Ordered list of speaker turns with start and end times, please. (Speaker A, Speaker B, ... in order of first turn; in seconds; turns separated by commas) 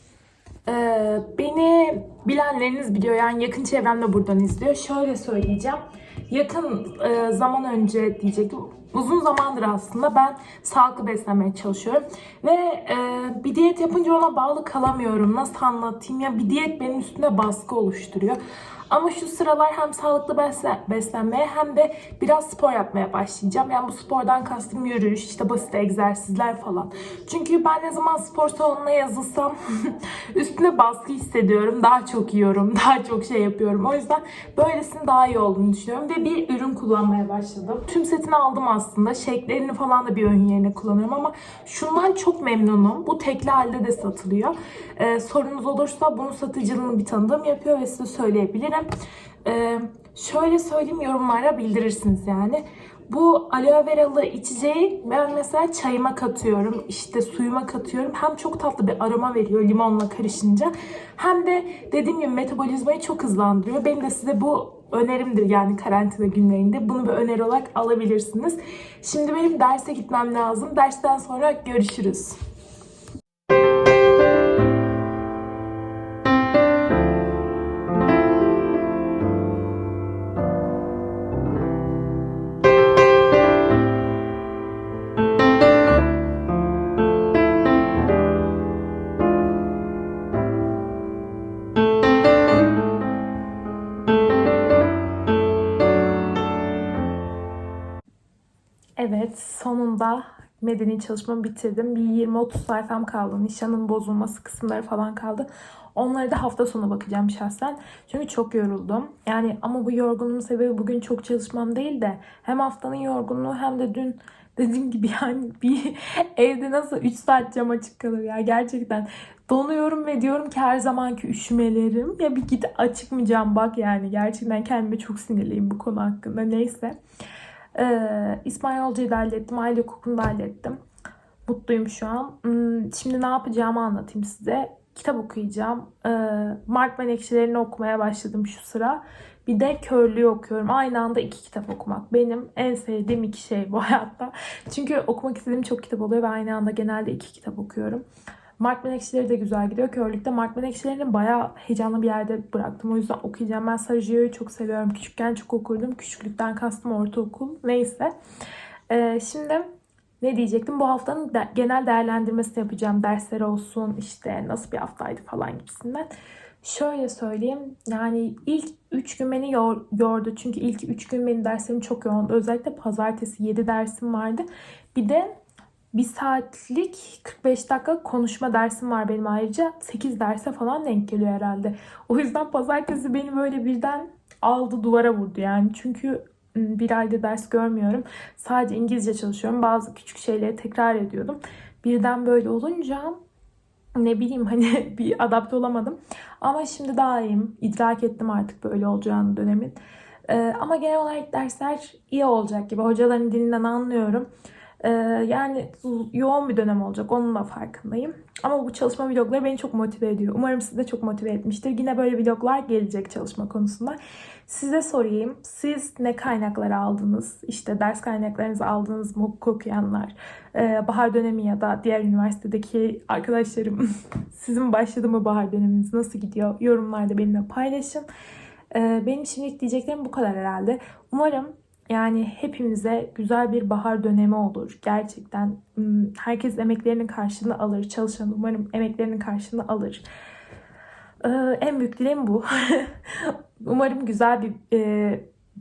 Speaker A: 0.7-48.9, Speaker A: 49.4-72.4, Speaker A: 99.0-127.0, Speaker A: 127.7-130.8, Speaker A: 131.5-148.0, Speaker A: 148.6-158.1, Speaker A: 158.9-159.7, Speaker A: 160.2-166.1, Speaker A: 166.6-175.3, Speaker A: 175.9-193.2, Speaker A: 193.9-199.8, Speaker A: 200.3-204.3, Speaker A: 204.8-228.1, Speaker A: 228.7-240.0, Speaker A: 241.2-245.2